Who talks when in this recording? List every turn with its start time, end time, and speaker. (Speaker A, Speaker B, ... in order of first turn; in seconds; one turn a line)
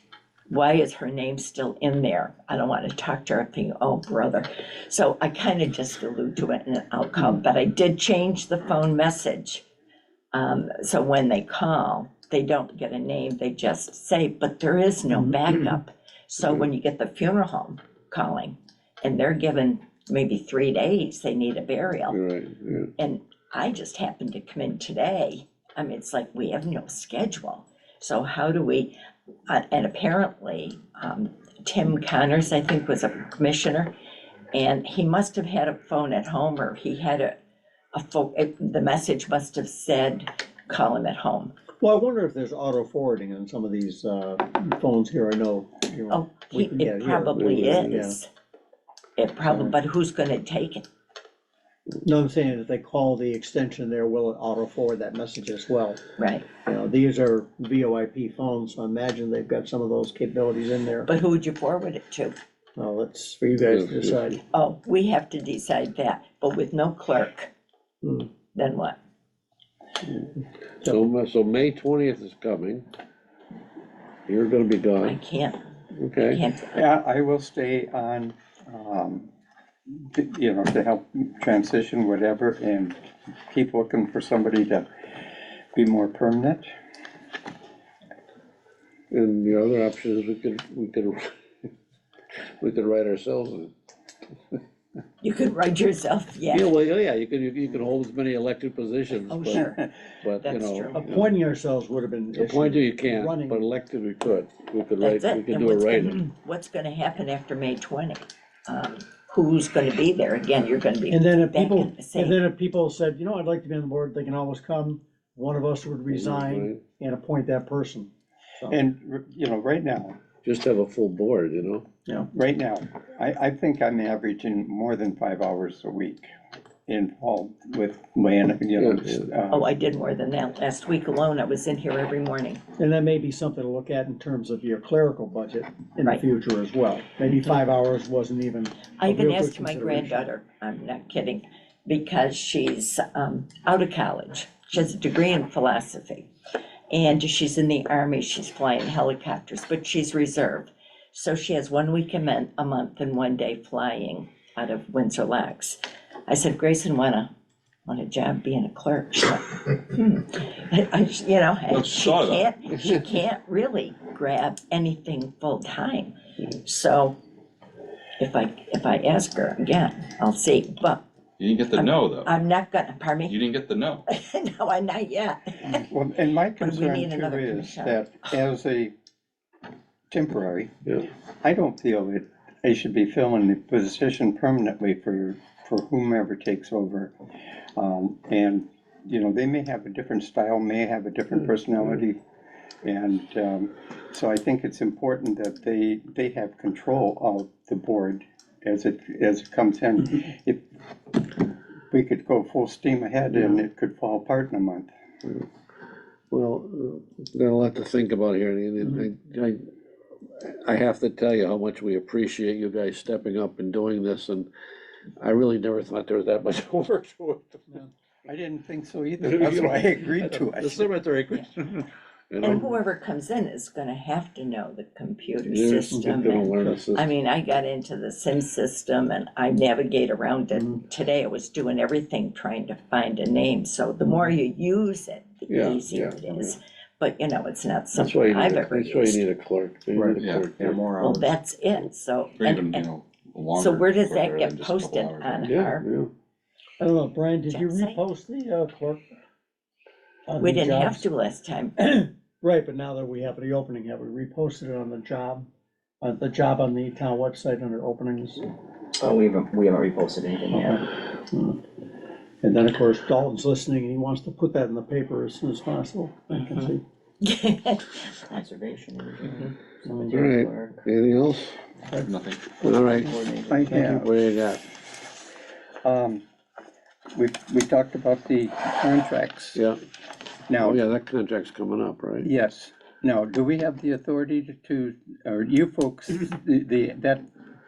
Speaker A: 0.5-9.6
Speaker A: 10.3-22.2
Speaker B: 15.1-15.4
Speaker C: 22.1-22.9
Speaker A: 23.0-28.9
Speaker A: 29.5-33.9
Speaker A: 34.5-37.3
Speaker A: 37.9-41.5
Speaker B: 41.8-48.2
Speaker A: 46.1-48.3
Speaker C: 47.3-48.0
Speaker A: 49.2-50.8
Speaker B: 52.0-56.0
Speaker A: 56.2-56.5
Speaker B: 56.6-61.1
Speaker A: 61.1-62.4
Speaker B: 62.8-64.4
Speaker C: 63.7-64.2
Speaker A: 64.5-67.5
Speaker B: 68.0-68.3
Speaker A: 68.5-69.0
Speaker C: 70.8-72.8
Speaker C: 74.3-75.2
Speaker A: 75.0-75.6
Speaker C: 75.9-76.4
Speaker A: 76.2-76.8
Speaker D: 76.7-79.3
Speaker D: 79.9-83.0
Speaker D: 83.5-84.9
Speaker D: 85.7-86.7
Speaker C: 89.1-91.7
Speaker C: 92.4-93.7
Speaker A: 95.2-96.7
Speaker C: 96.5-101.3
Speaker A: 99.3-99.8
Speaker A: 100.4-100.9
Speaker B: 100.9-103.7
Speaker C: 102.3-106.3
Speaker A: 105.0-112.4
Speaker B: 111.1-118.8
Speaker C: 116.1-116.8
Speaker D: 118.7-120.2
Speaker C: 120.4-121.8
Speaker D: 122.3-126.3
Speaker D: 126.9-129.7
Speaker C: 128.8-129.3
Speaker A: 129.5-132.6
Speaker B: 132.8-140.3
Speaker A: 139.0-146.3
Speaker A: 146.9-157.3
Speaker A: 157.9-167.2
Speaker E: 161.7-162.5
Speaker A: 168.2-171.0
Speaker E: 171.4-172.3
Speaker A: 171.7-173.4
Speaker E: 173.3-174.0
Speaker A: 174.1-175.9
Speaker D: 175.7-178.9
Speaker A: 176.5-178.1
Speaker D: 180.1-180.7
Speaker D: 181.4-187.1
Speaker D: 187.8-192.2
Speaker D: 192.8-200.6
Speaker D: 201.9-204.9
Speaker C: 206.3-209.7
Speaker C: 210.3-214.5
Speaker C: 215.2-217.7
Speaker D: 218.2-220.9
Speaker C: 219.2-222.7
Speaker A: 222.4-239.2
Speaker C: 225.4-227.1
Speaker B: 225.9-226.8
Speaker B: 230.5-230.8
Speaker C: 235.5-236.5
Speaker C: 237.9-240.9
Speaker E: 240.2-240.5
Speaker F: 240.5-241.3
Speaker A: 241.0-242.9
Speaker E: 242.4-245.5
Speaker A: 243.6-245.9
Speaker C: 245.4-246.1
Speaker B: 246.8-249.0
Speaker A: 247.5-248.0
Speaker B: 250.3-251.1
Speaker A: 250.4-251.7
Speaker B: 251.8-255.5
Speaker B: 256.0-258.4
Speaker F: 259.0-260.8
Speaker B: 260.5-261.6
Speaker B: 262.4-266.8
Speaker A: 267.2-268.1
Speaker F: 268.3-270.9
Speaker C: 270.1-271.6
Speaker E: 272.0-272.6
Speaker F: 272.6-274.0
Speaker C: 272.6-273.2
Speaker D: 273.5-274.1
Speaker C: 273.7-274.6
Speaker D: 275.8-276.2
Speaker D: 277.1-279.6
Speaker C: 279.5-279.8
Speaker D: 280.5-280.8
Speaker C: 280.5-282.3
Speaker D: 282.2-287.2